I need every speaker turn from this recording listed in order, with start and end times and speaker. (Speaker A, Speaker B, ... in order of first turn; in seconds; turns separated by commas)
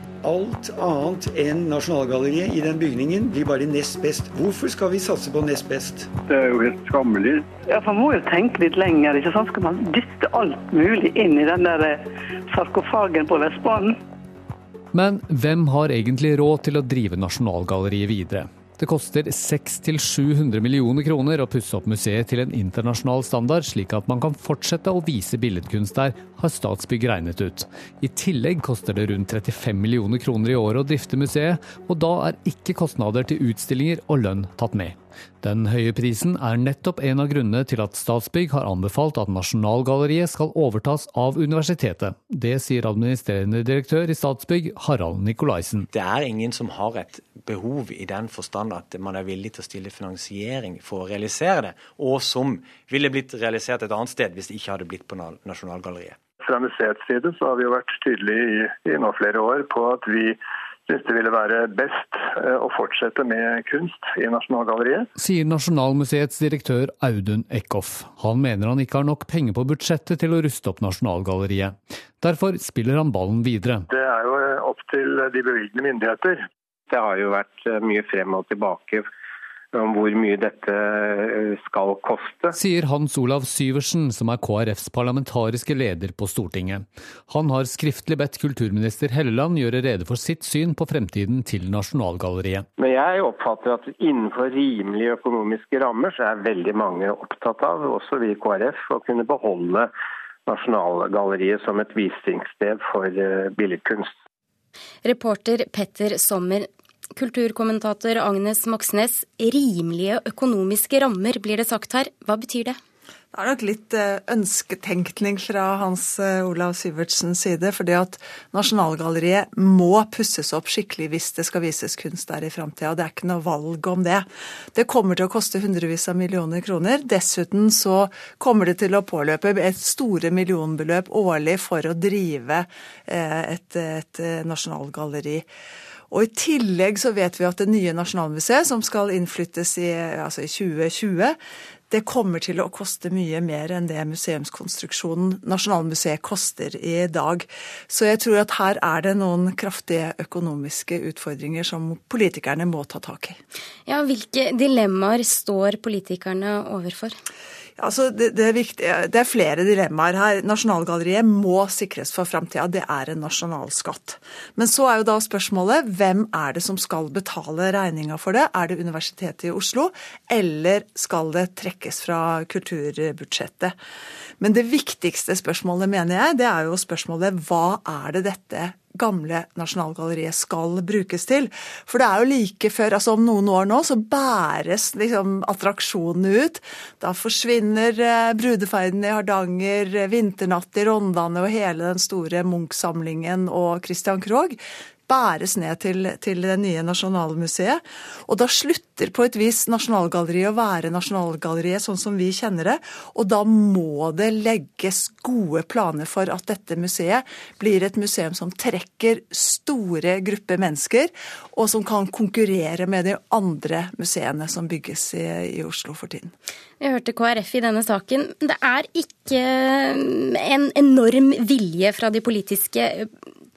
Speaker A: 0.2-6.1, Speaker B: 6.3-7.5, Speaker C: 7.5-14.0, Speaker D: 14.9-45.9, Speaker E: 45.9-56.2, Speaker B: 56.4-65.1, Speaker D: 65.2-73.9, Speaker B: 73.9-76.5, Speaker F: 76.9-79.0, Speaker F: 79.7-82.5, Speaker D: 82.5-92.7, Speaker F: 92.8-99.9, Speaker F: 100.5-104.1, Speaker G: 105.0-112.8, Speaker H: 113.3-135.4, Speaker H: 136.1-141.4, Speaker H: 141.9-153.4, Speaker G: 153.9-157.1, Speaker H: 157.8-173.7, Speaker H: 174.4-216.3, Speaker G: 216.8-223.1